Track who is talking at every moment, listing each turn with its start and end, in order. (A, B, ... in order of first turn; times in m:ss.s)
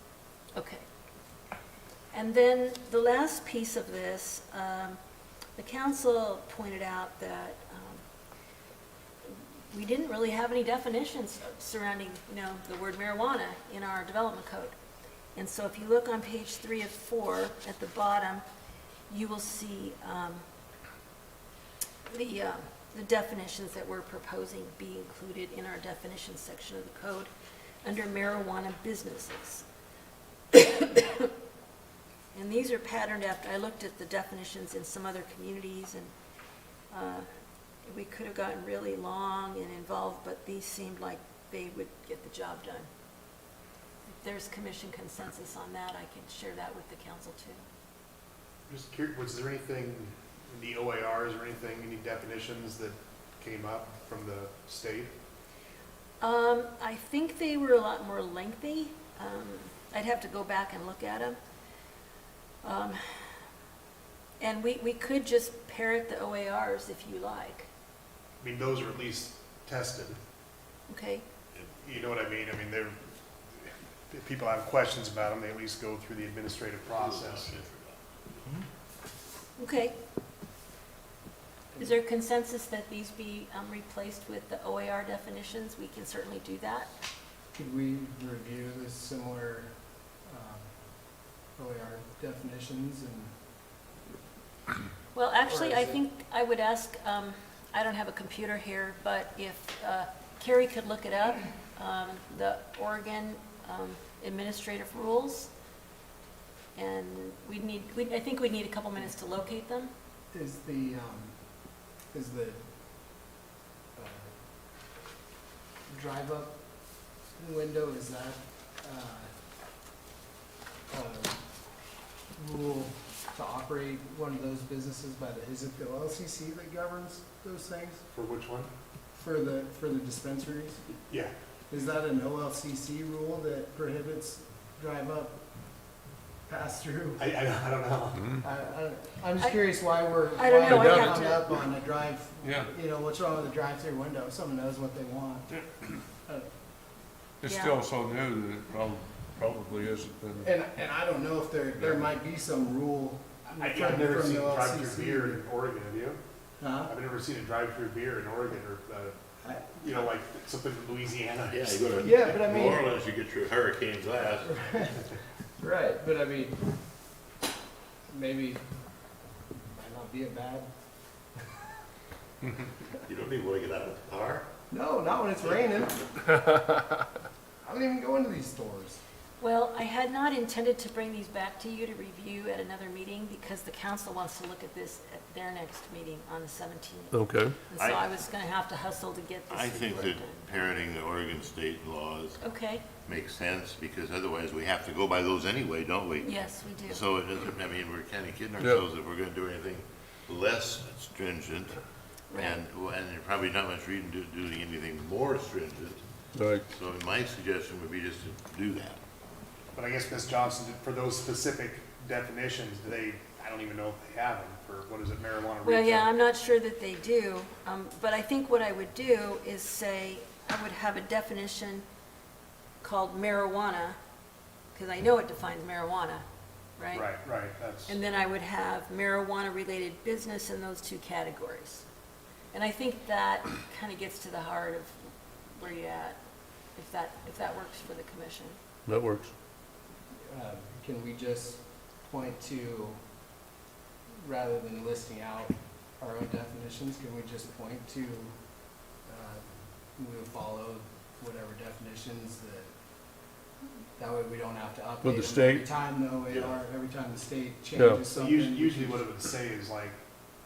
0:00.5-0:00.8 A
0:02.1-0:05.0 A
0:05.6-0:08.0 A
0:09.2-0:14.7 A
0:15.4-0:18.4 A
0:19.1-0:20.4 A
0:22.1-0:27.3 A
0:27.8-0:29.6 A
0:30.5-0:31.3 A
0:32.3-0:36.1 A
0:36.9-0:37.3 A
0:37.8-0:42.9 A
0:44.1-0:47.6 A
0:48.7-0:55.1 B
0:56.2-1:01.4 A
1:02.6-1:03.4 A
1:04.4-1:07.7 A
1:08.4-1:10.2 B
1:10.9-1:11.2 A
1:11.8-1:13.0 B
1:13.6-1:17.6 B
1:16.9-1:18.6 C
1:19.6-1:20.0 A
1:21.8-1:26.9 A
1:27.5-1:29.7 D
1:30.2-1:33.3 D
1:35.1-1:45.5 A
1:35.4-1:36.0 D
1:46.7-1:49.9 A
1:50.3-1:51.4 D
1:52.1-1:52.7 D
1:53.9-1:54.3 D
1:55.9-1:56.6 D
1:57.3-1:59.3 D
2:00.9-2:01.4 D
2:02.4-2:08.0 D
2:08.1-2:08.7 B
2:09.1-2:10.8 D
2:11.7-2:15.4 D
2:16.5-2:17.2 D
2:17.2-2:18.3 B
2:18.4-2:25.5 D
2:20.4-2:21.4 A
2:20.7-2:21.2 E
2:26.2-2:26.5 D
2:27.4-2:30.5 E
2:27.4-2:27.8 A
2:30.4-2:35.4 D
2:33.6-2:36.2 B
2:36.6-2:36.9 D
2:36.9-2:39.2 B
2:39.4-2:40.0 D
2:39.8-2:42.8 B
2:41.5-2:44.7 C
2:42.0-2:42.9 D
2:44.4-2:45.0 D
2:45.6-2:46.6 D
2:48.1-2:48.6 D
2:49.7-2:50.7 D
2:52.6-2:54.5 C
2:54.7-2:56.7 D
2:57.6-2:59.0 D
2:59.4-3:10.5 A
3:07.1-3:07.6 E
3:07.8-3:08.1 C
3:09.5-3:21.8 C
3:12.4-3:12.8 A
3:16.2-3:17.0 A
3:18.6-3:18.8 E
3:22.3-3:22.6 A
3:22.3-3:26.0 C
3:26.3-3:26.6 E
3:26.7-3:29.0 C
3:29.7-3:36.1 B
3:35.6-3:41.8 A
3:42.8-3:44.0 A
3:44.7-3:46.2 A
3:46.8-3:47.1 A
3:46.9-3:48.0 B
3:47.9-3:51.8 A
3:52.5-3:56.2 A
3:56.7-3:58.6 A
3:58.8-3:59.3 E
4:00.3-4:03.0 D
4:04.2-4:12.7 D
4:14.0-4:19.1 D
4:15.0-4:15.6 E
4:16.3-4:16.6 C
4:17.8-4:18.0 E
4:18.0-4:20.0 B